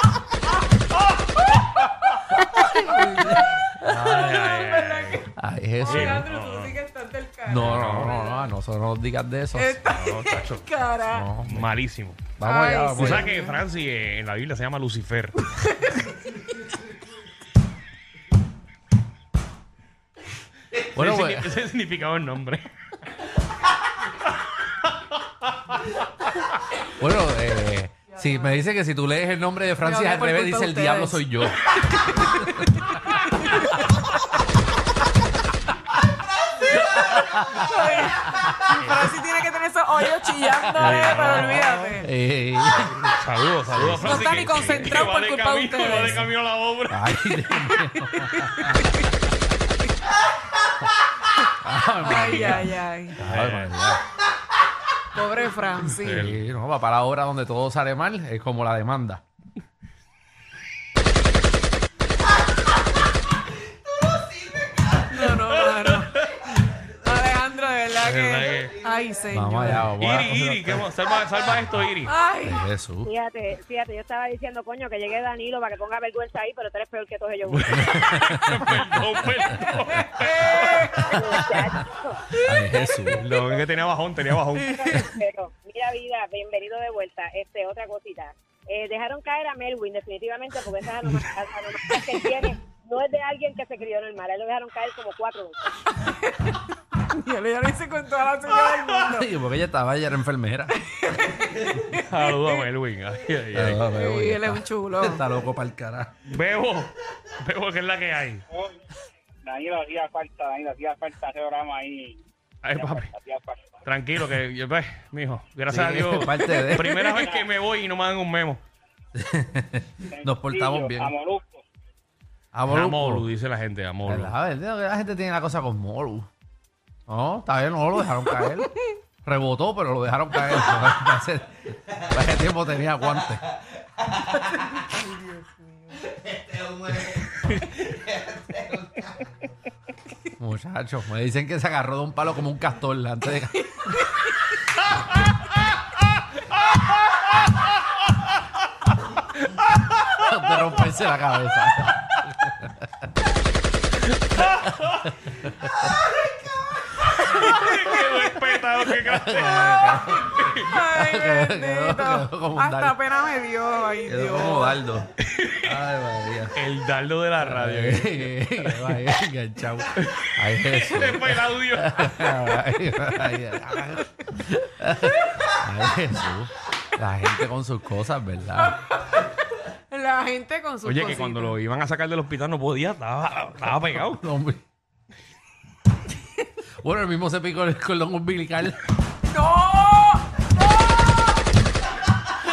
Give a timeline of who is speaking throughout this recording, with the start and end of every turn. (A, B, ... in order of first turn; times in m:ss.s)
0:02.6-0:05.3 A
0:03.8-0:05.2 B
0:05.4-0:06.3 C
0:05.8-0:08.5 A
0:05.8-0:06.8 B
0:07.4-0:09.8 C
0:07.6-0:08.1 B
0:09.6-0:11.3 A
0:09.9-0:10.7 B
0:11.0-0:11.7 C
0:11.4-0:12.2 B
0:12.4-0:13.3 C
0:12.4-0:13.6 A
0:13.0-0:15.4 B
0:15.5-0:16.1 A
0:20.8-0:22.7 B
0:20.9-0:21.5 C
0:24.8-0:25.9 B
0:27.0-0:32.8 C
0:29.8-0:33.9 A
0:36.6-0:37.7 B
0:37.0-0:37.6 C
0:37.5-0:42.1 A
0:38.6-0:39.1 B
0:40.4-0:44.8 C
0:40.8-0:41.9 B
0:43.1-0:47.2 B
0:44.0-0:46.3 A
0:45.9-0:46.3 C
0:46.9-0:49.0 C
0:47.7-0:49.1 A
0:51.5-0:54.0 C
0:52.0-0:53.2 A
0:52.1-0:52.5 B
0:53.2-0:53.8 B
0:55.1-0:56.3 A
0:55.8-0:59.2 C
0:56.0-0:56.4 B
1:05.0-1:06.1 A
1:05.2-1:06.6 B
1:06.9-1:09.9 A
1:08.0-1:08.8 B
1:09.3-1:10.8 C
1:09.6-1:12.1 B
1:12.0-1:12.6 A
1:12.4-1:13.1 C
1:13.0-1:18.1 D
1:17.5-1:21.4 B
1:17.8-1:19.0 C
1:19.5-1:19.8 C
1:20.1-1:21.1 A
1:20.4-1:22.2 D
1:22.4-1:23.2 C
1:23.1-1:25.0 B
1:24.6-1:35.8 D
1:36.1-1:39.3 A
1:39.0-1:40.7 C
1:40.8-1:42.0 A
1:41.8-1:43.9 B
1:43.5-1:46.1 C
1:43.9-1:45.2 A
1:46.2-1:48.4 B
1:48.5-1:48.8 E
1:49.4-1:53.7 E
1:52.6-1:53.1 B
1:53.8-1:58.6 B
1:55.7-1:57.0 C
1:59.2-2:01.1 C
2:00.1-2:01.6 E
2:02.5-2:03.3 C
2:02.7-2:04.3 B
2:04.0-2:06.3 C
2:07.1-2:13.5 C
2:14.7-2:16.0 A
2:17.3-2:17.9 B
2:20.4-2:24.1 C
2:23.8-2:24.4 A
2:30.1-2:32.9 C
2:34.4-2:35.1 B
2:37.2-2:40.7 B
2:39.0-2:43.0 C
2:40.7-2:44.8 A
2:44.0-2:45.1 C
2:45.3-2:45.8 B
2:45.6-2:46.6 C
2:46.5-2:49.0 B
2:47.4-2:58.8 C
2:50.0-2:52.4 B
2:59.9-3:01.5 A
3:00.8-3:04.2 B
3:03.8-3:04.6 C
3:06.8-3:08.8 C
3:09.3-3:10.3 A